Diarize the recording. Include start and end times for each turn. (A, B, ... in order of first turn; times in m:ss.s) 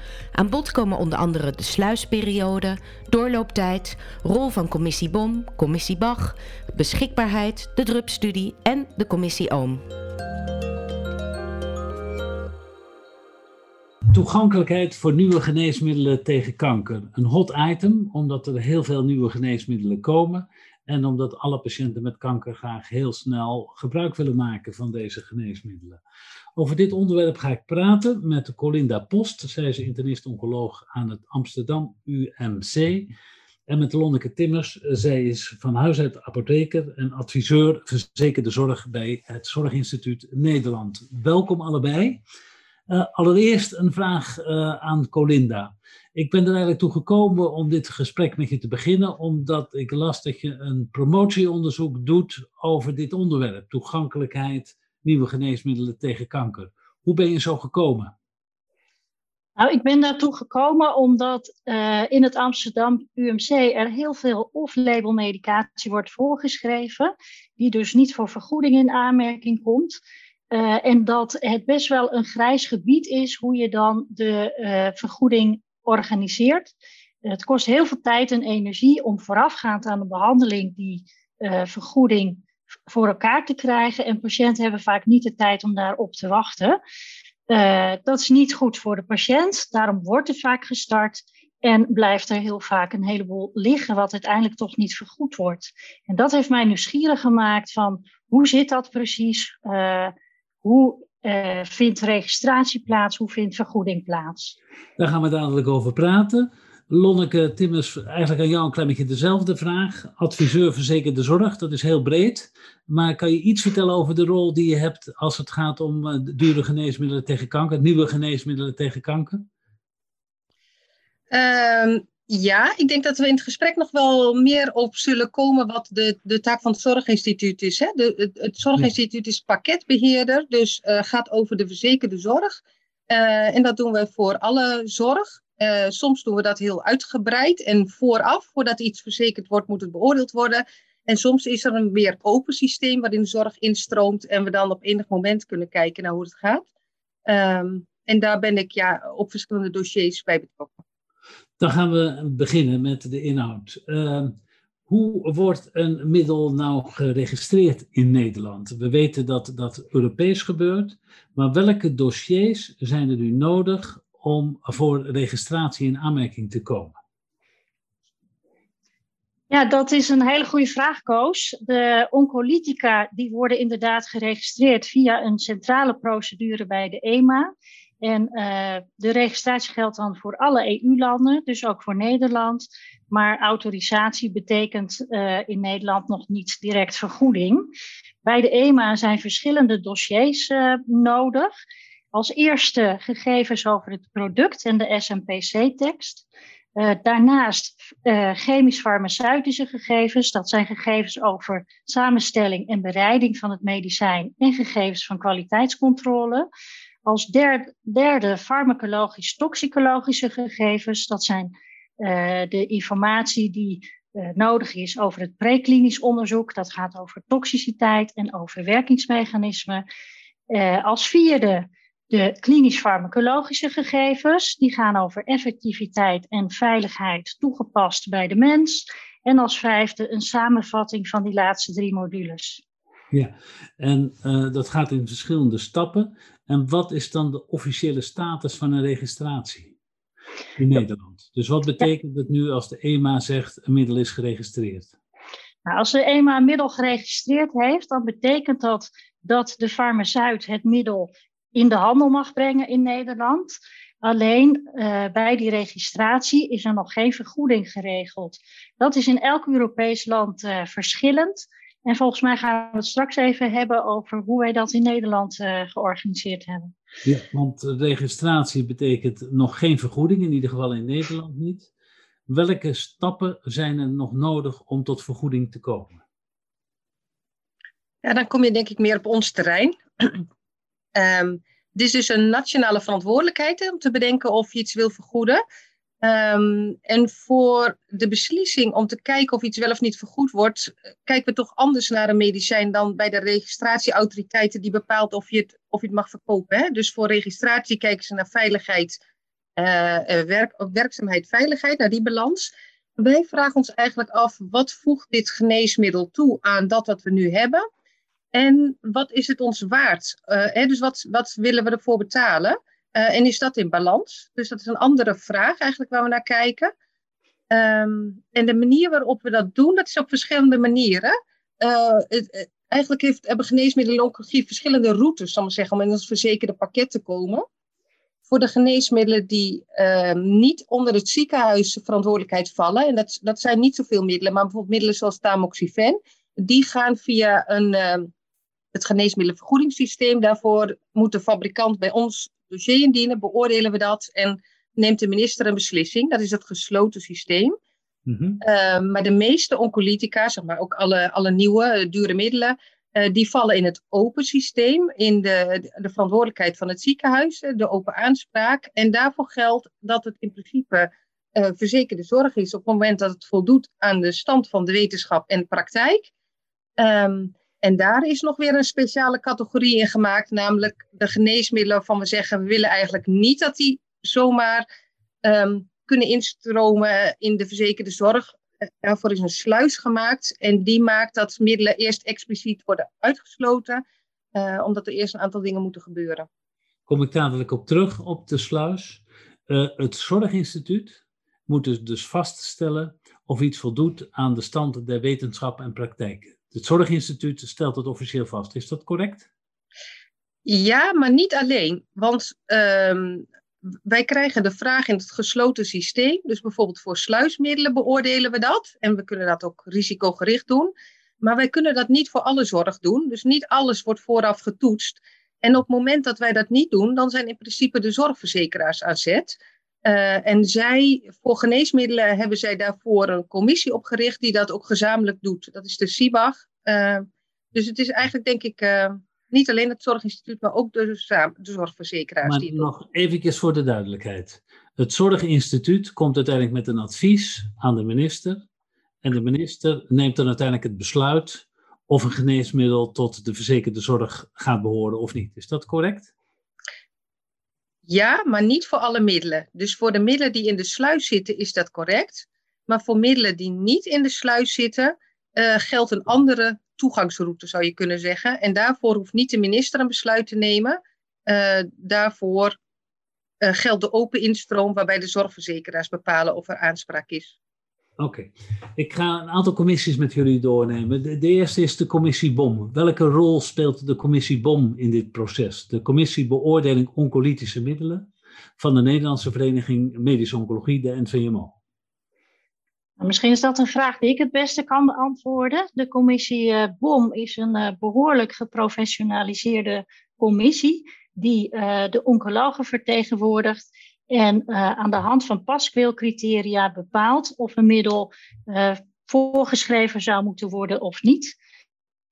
0:00.3-0:09.8 A
0:14.1-0:26.0 B
0:26.6-0:33.1 B
0:33.7-0:42.2 B
0:42.9-0:58.1 B
0:59.6-1:10.0 C
1:10.5-1:16.7 C
1:17.2-1:26.8 C
1:27.5-1:44.6 C
1:45.0-1:59.4 B
2:01.3-2:26.6 D
2:27.2-2:30.7 D
2:31.6-2:34.3 B
2:34.9-2:46.9 B
2:49.5-2:57.5 C
2:58.0-3:07.7 C
3:08.2-3:11.5 C
3:12.1-3:16.2 C
3:16.8-3:26.5 C
3:27.0-3:39.8 C
3:40.5-3:52.6 C
3:53.1-3:59.7 B
4:00.6-4:04.9 B
4:05.6-4:26.7 C
4:27.0-4:31.7 B
4:32.3-4:36.0 B
4:38.0-4:40.2 D
4:40.9-4:45.4 D
4:46.0-4:59.0 D
4:59.6-5:07.6 D
5:08.3-5:16.7 D
5:17.5-5:27.4 D
5:28.3-5:38.1 D
5:38.7-5:47.5 D
5:48.1-5:48.4 B
5:48.4-6:06.1 D
6:06.8-6:14.6 D
6:15.2-6:23.8 D
6:24.3-6:26.3 D
6:26.9-6:39.3 B
6:40.4-6:43.2 D
6:43.8-7:12.7 D
7:12.2-7:18.4 B
7:19.0-7:26.1 B
7:27.9-7:42.6 D
7:43.4-7:47.3 D
7:48.0-7:58.1 B
7:58.6-8:01.5 B
8:03.0-8:21.3 C